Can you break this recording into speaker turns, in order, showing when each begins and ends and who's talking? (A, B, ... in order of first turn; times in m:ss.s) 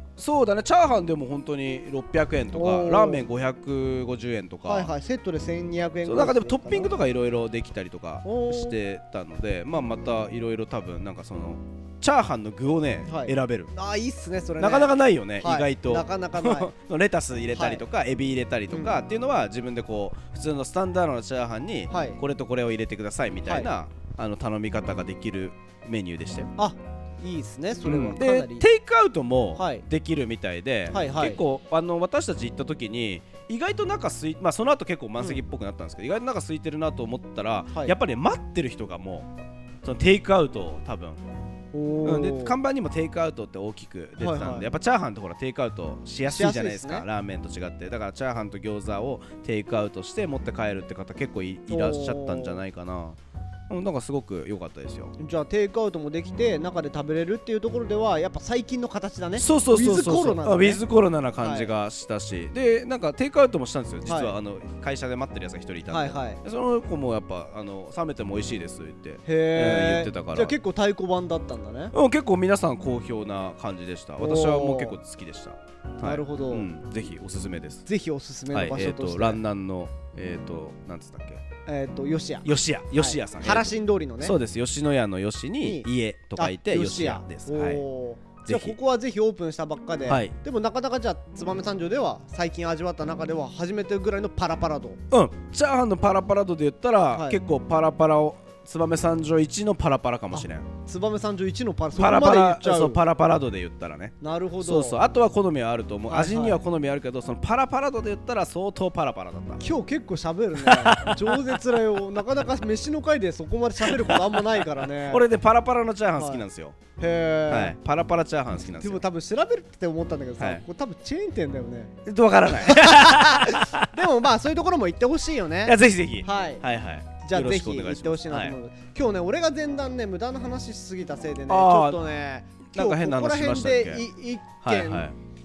0:00.2-0:04.9 A
0:02.5-0:03.2 B
0:04.6-0:07.0 B
0:06.0-0:13.7 A
0:08.2-0:08.8 B
0:13.0-0:16.7 B
0:14.6-0:26.5 A
0:17.5-0:17.8 B
0:21.9-0:22.2 B
0:23.4-0:23.7 B
0:26.6-0:28.7 B
0:27.8-0:39.3 A
0:29.6-0:29.8 B
0:30.9-0:31.4 B
0:39.8-0:41.2 A
0:41.7-0:42.6 B
0:42.0-0:53.2 A
0:44.2-0:44.7 B
0:46.2-0:47.0 B
0:51.7-0:52.6 B
0:53.7-0:55.1 A
0:55.2-1:00.8 B
0:59.4-1:10.6 A
1:01.4-1:01.7 B
1:04.1-1:04.4 B
1:05.9-1:06.4 B
1:09.2-1:11.9 B
1:11.9-1:17.8 A
1:14.2-1:15.0 B
1:16.0-1:16.7 B
1:17.9-1:19.4 B
1:18.5-1:21.4 A
1:21.7-1:24.4 B
1:22.4-1:27.8 A
1:25.6-1:35.0 B
1:28.4-1:28.8 A
1:30.1-1:30.3 A
1:35.1-1:40.7 A
1:37.1-1:37.4 B
1:40.3-1:43.0 B
1:42.0-1:49.6 A
1:44.2-1:45.1 B
1:46.1-1:46.6 B
1:49.6-1:55.2 B
1:50.6-1:52.0 A
1:53.8-1:56.8 A
1:56.2-1:56.4 B
1:57.0-1:57.8 B
1:57.5-1:59.0 A
1:58.6-2:01.9 B
2:00.4-2:00.6 A
2:02.1-2:04.0 A
2:02.5-2:06.7 B
2:05.6-2:08.6 A
2:07.2-2:15.1 B
2:11.5-2:12.0 A
2:12.7-2:14.0 A
2:14.6-2:15.2 A